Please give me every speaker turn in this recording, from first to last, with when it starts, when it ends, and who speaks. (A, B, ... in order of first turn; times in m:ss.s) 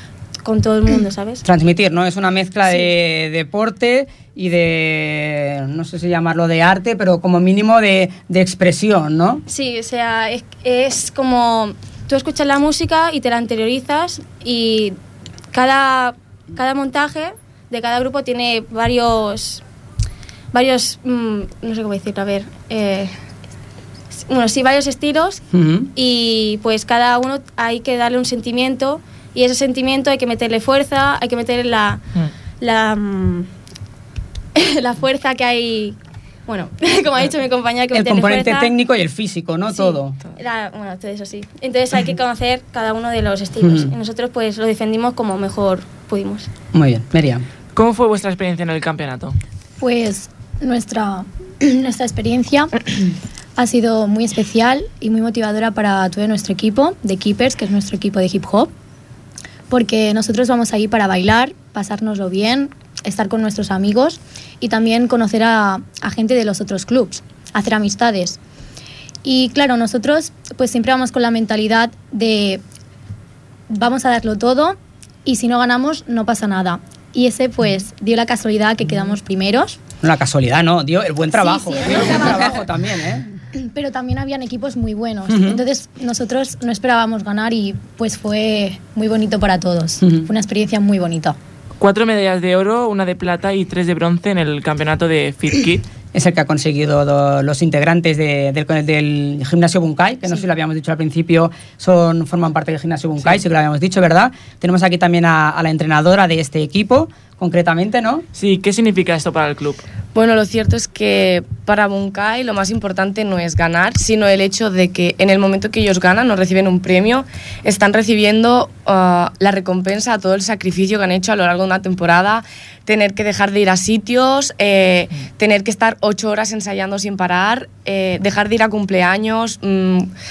0:00.4-0:01.4 A
0:01.4-0:09.4 B
0:09.5-0:15.0 A
0:15.5-0:19.6 A
0:20.5-0:23.2 A
0:24.1-0:32.0 A
0:25.5-0:25.9 B
0:32.6-0:33.5 A
0:34.6-0:38.7 A
0:37.9-0:40.2 B
0:39.8-0:46.5 A
0:43.6-0:43.9 B
0:46.7-0:47.4 B
0:47.7-0:49.4 C
0:49.8-0:52.9 D
0:53.6-0:58.7 D
0:59.7-1:08.4 D
1:09.2-1:12.6 D
1:13.7-1:19.8 D
1:18.8-1:19.2 B
1:20.0-1:23.2 B
1:21.3-1:22.6 D
1:23.5-1:31.4 D
1:25.3-1:25.6 B
1:30.0-1:30.3 B
1:31.8-1:35.8 C
1:36.1-1:48.2 B
1:48.3-1:49.8 C
1:50.1-2:10.1 E